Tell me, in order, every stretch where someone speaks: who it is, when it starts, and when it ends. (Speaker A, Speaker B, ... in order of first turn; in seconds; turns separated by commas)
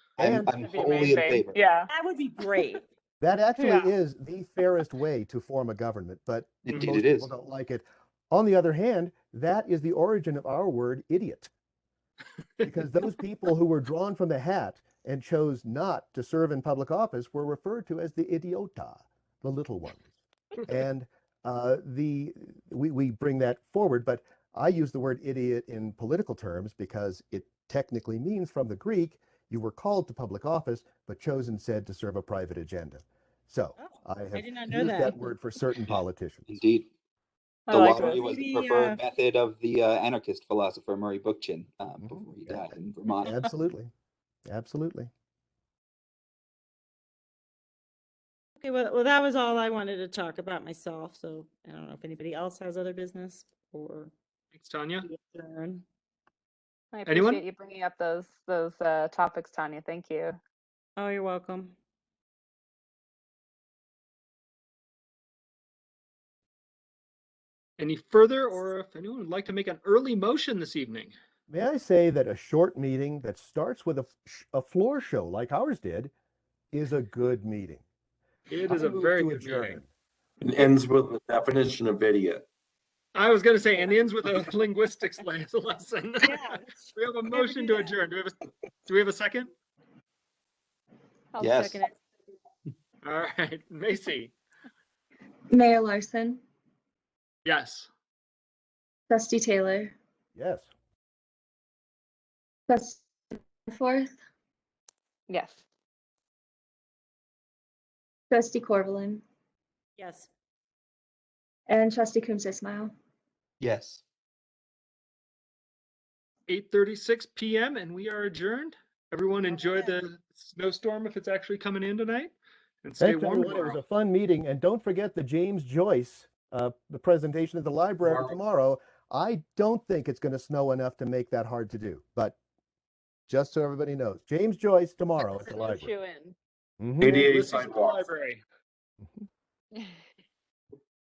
Speaker A: 0.2-1.6, Speaker B: 0.2-0.6, Speaker C: 0.6-1.9, Speaker D: 1.9-2.8, Speaker B: 3.2-11.5, Speaker C: 3.6-3.9, Speaker A: 6.7-7.3, Speaker B: 12.7-20.1, Speaker B: 20.6-36.6, Speaker D: 33.8-35.3, Speaker A: 35.9-36.9, Speaker C: 37.7-38.3, Speaker A: 37.7-43.4, Speaker D: 37.7-39.0, Speaker B: 42.0-43.9, Speaker B: 44.5-45.1, Speaker D: 48.6-54.1, Speaker E: 54.5-55.1, Speaker D: 55.0-55.8, Speaker C: 56.9-60.4, Speaker E: 57.1-57.4, Speaker D: 61.0-61.7, Speaker E: 67.8-71.2, Speaker B: 71.5-76.1, Speaker B: 76.7-77.8, Speaker E: 78.5-79.8, Speaker B: 78.7-79.9, Speaker F: 80.4-82.5, Speaker E: 83.2-89.5, Speaker D: 86.2-87.9, Speaker C: 91.3-91.8, Speaker A: 91.4-91.8, Speaker D: 91.7-92.0, Speaker E: 93.0-94.3, Speaker G: 95.5-96.4, Speaker E: 97.5-97.9, Speaker G: 99.1-99.9, Speaker B: 100.3-100.7, Speaker G: 102.7-104.2, Speaker C: 105.3-105.6, Speaker G: 108.3-109.2, Speaker D: 110.0-110.3, Speaker G: 111.7-112.9, Speaker A: 113.6-114.0, Speaker E: 116.5-123.8, Speaker D: 119.5-120.0, Speaker B: 123.0-132.4, Speaker F: 128.0-128.3, Speaker B: 133.3-135.9, Speaker C: 135.2-136.4, Speaker B: 136.8-137.3, Speaker F: 137.0-138.1, Speaker E: 137.2-138.4, Speaker B: 139.0-139.3